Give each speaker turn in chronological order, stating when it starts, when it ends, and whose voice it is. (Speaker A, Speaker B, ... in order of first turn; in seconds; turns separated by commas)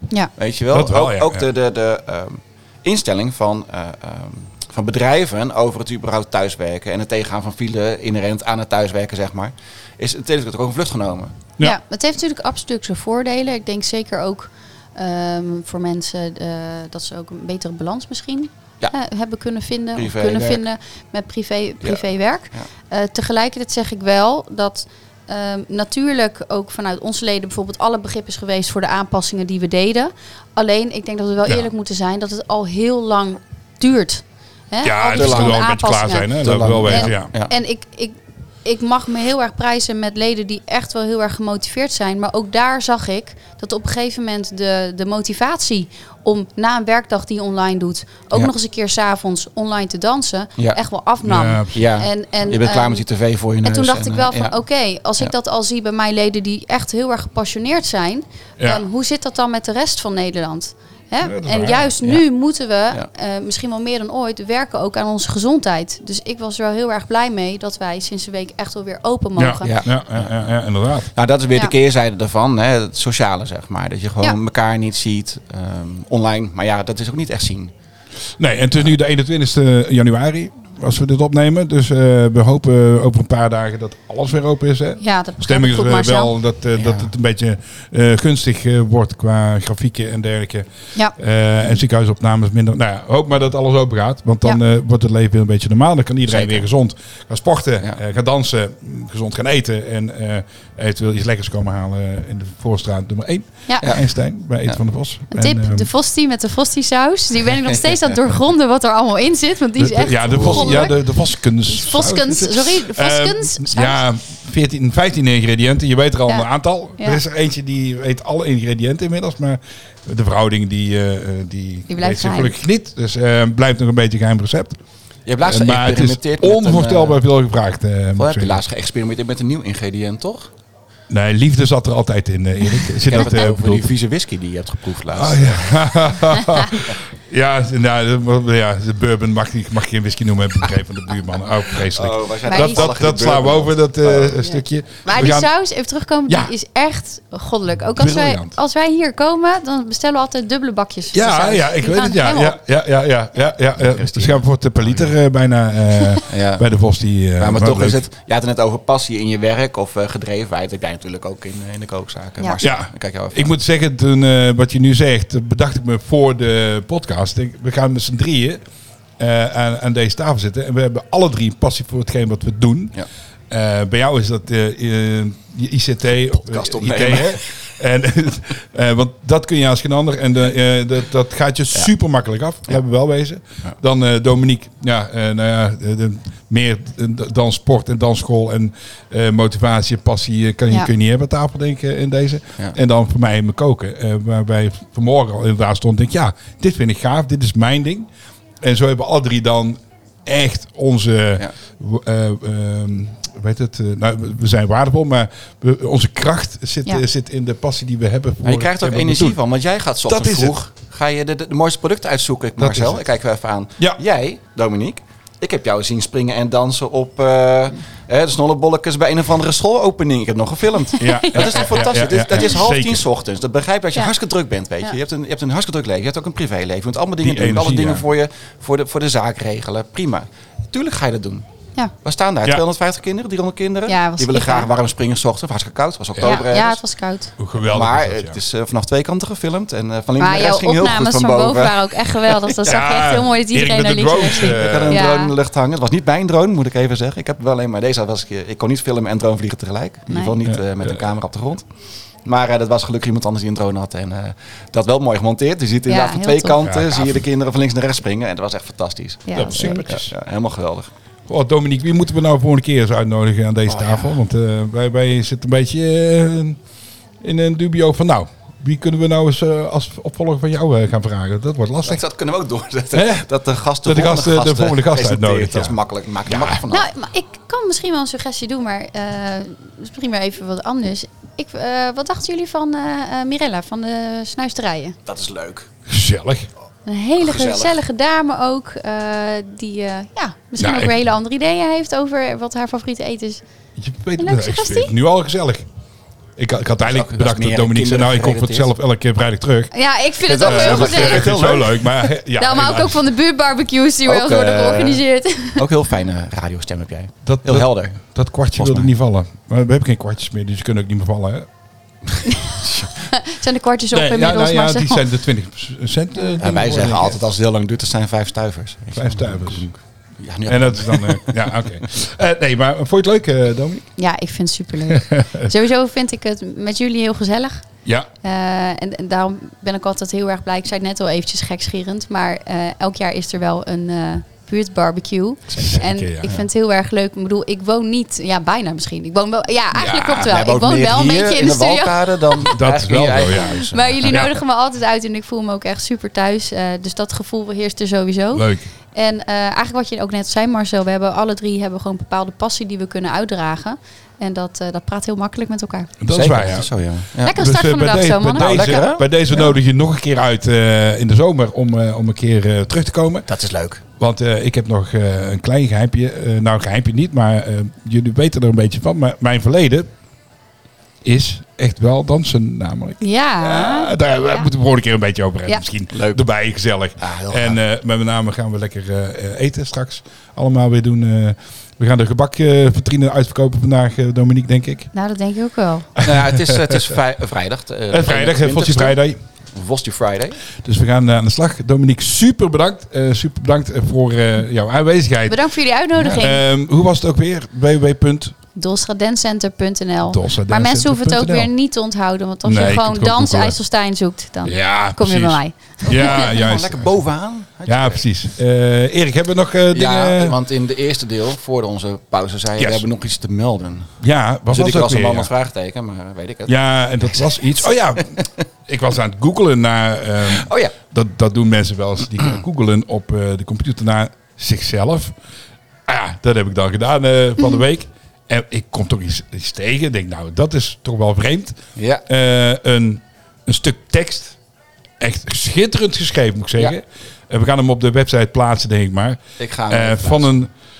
Speaker A: 0.3-11.4, Speaker B: 0.7-1.4, Speaker C: 11.6-36.3, Speaker A: 19.9-20.6, Speaker B: 34.8-37.3, Speaker A: 35.1-35.6, Speaker A: 36.4-37.5, Speaker C: 36.8-53.0, Speaker B: 51.2-51.8, Speaker A: 51.7-54.5, Speaker C: 53.6-69.7, Speaker B: 61.2-61.9, Speaker B: 69.4-71.1, Speaker A: 69.6-70.5, Speaker A: 71.1-77.7, Speaker B: 78.4-105.9, Speaker C: 85.0-86.3, Speaker A: 86.7-87.1, Speaker A: 96.3-96.6, Speaker A: 103.8-104.1, Speaker C: 105.3-111.0, Speaker A: 107.6-107.9, Speaker B: 109.8-124.8, Speaker A: 110.3-110.9, Speaker C: 111.7-114.0, Speaker C: 121.9-122.5, Speaker A: 125.2-127.2, Speaker B: 125.4-128.6, Speaker A: 128.2-130.5, Speaker B: 131.1-133.9, Speaker A: 133.0-136.3, Speaker B: 135.1-145.5, Speaker A: 141.7-144.6, Speaker C: 142.4-142.9, Speaker C: 145.0-152.6, Speaker B: 147.9-148.5, Speaker B: 151.1-158.0, Speaker A: 153.8-155.1, Speaker A: 156.2-156.7, Speaker A: 157.4-163.5, Speaker B: 162.6-168.6, Speaker B: 169.2-172.9, Speaker B: 173.5-198.1, Speaker A: 176.3-177.6, Speaker B: 198.6-209.4, Speaker A: 208.4-231.4, Speaker B: 210.1-210.5, Speaker B: 212.6-213.0, Speaker C: 220.9-221.6, Speaker B: 221.0-223.0, Speaker B: 227.2-228.1, Speaker A: 232.0-236.8, Speaker C: 233.9-234.7, Speaker B: 236.1-236.7, Speaker C: 236.2-237.3, Speaker B: 237.4-238.4, Speaker A: 237.6-242.8, Speaker C: 240.2-245.3, Speaker B: 242.6-245.0, Speaker A: 244.2-251.7, Speaker C: 250.1-250.3, Speaker B: 250.5-251.0, Speaker A: 252.2-260.9, Speaker C: 255.9-256.6, Speaker B: 256.6-257.2, Speaker C: 259.3-259.9, Speaker B: 259.3-260.1, Speaker B: 261.3-266.6, Speaker A: 263.7-264.2, Speaker B: 267.2-272.0, Speaker A: 271.8-276.9, Speaker B: 272.9-273.3, Speaker B: 273.8-276.6, Speaker C: 276.7-285.0, Speaker A: 285.1-285.7, Speaker B: 285.9-286.5, Speaker C: 286.9-293.4, Speaker A: 287.2-287.8, Speaker B: 290.6-290.9, Speaker B: 293.8-295.6, Speaker C: 294.2-294.9, Speaker B: 296.4-299.7, Speaker A: 296.8-298.7, Speaker C: 299.7-301.4, Speaker A: 300.3-302.1, Speaker B: 300.4-303.0, Speaker C: 302.3-305.6, Speaker A: 304.0-305.0, Speaker A: 305.5-308.0, Speaker B: 307.2-311.5, Speaker A: 308.5-308.9, Speaker C: 312.3-315.0, Speaker A: 312.6-312.9, Speaker B: 313.9-317.3, Speaker A: 316.4-321.9, Speaker B: 318.9-319.7, Speaker B: 320.4-323.9, Speaker C: 324.0-327.7, Speaker B: 324.9-325.5, Speaker C: 328.2-342.6, Speaker B: 335.5-336.4, Speaker A: 339.8-344.2, Speaker B: 342.5-344.4, Speaker C: 343.3-355.9, Speaker B: 348.3-348.7, Speaker B: 356.0-356.7, Speaker A: 356.1-357.3, Speaker C: 357.2-359.5, Speaker B: 357.3-363.3, Speaker A: 358.3-359.5, Speaker A: 363.3-363.8, Speaker B: 364.0-369.9, Speaker B: 371.0-384.9, Speaker C: 373.0-374.5, Speaker A: 375.9-376.2, Speaker A: 377.0-377.6, Speaker C: 384.9-385.9, Speaker A: 386.0-389.0, Speaker B: 386.0-386.9, Speaker B: 387.9-389.2, Speaker A: 389.5-390.4, Speaker B: 390.6-395.4, Speaker C: 395.3-396.4, Speaker B: 395.9-398.3, Speaker C: 398.5-406.4, Speaker B: 400.1-401.5, Speaker B: 402.4-403.6, Speaker B: 404.4-406.9, Speaker A: 405.8-408.0, Speaker B: 407.7-410.4, Speaker A: 409.7-414.0, Speaker B: 412.6-412.9, Speaker B: 414.0-415.3, Speaker A: 414.5-418.4, Speaker B: 416.5-425.1, Speaker A: 420.3-420.7, Speaker B: 425.9-434.4, Speaker A: 431.8-432.0, Speaker B: 435.0-440.5, Speaker A: 439.4-440.3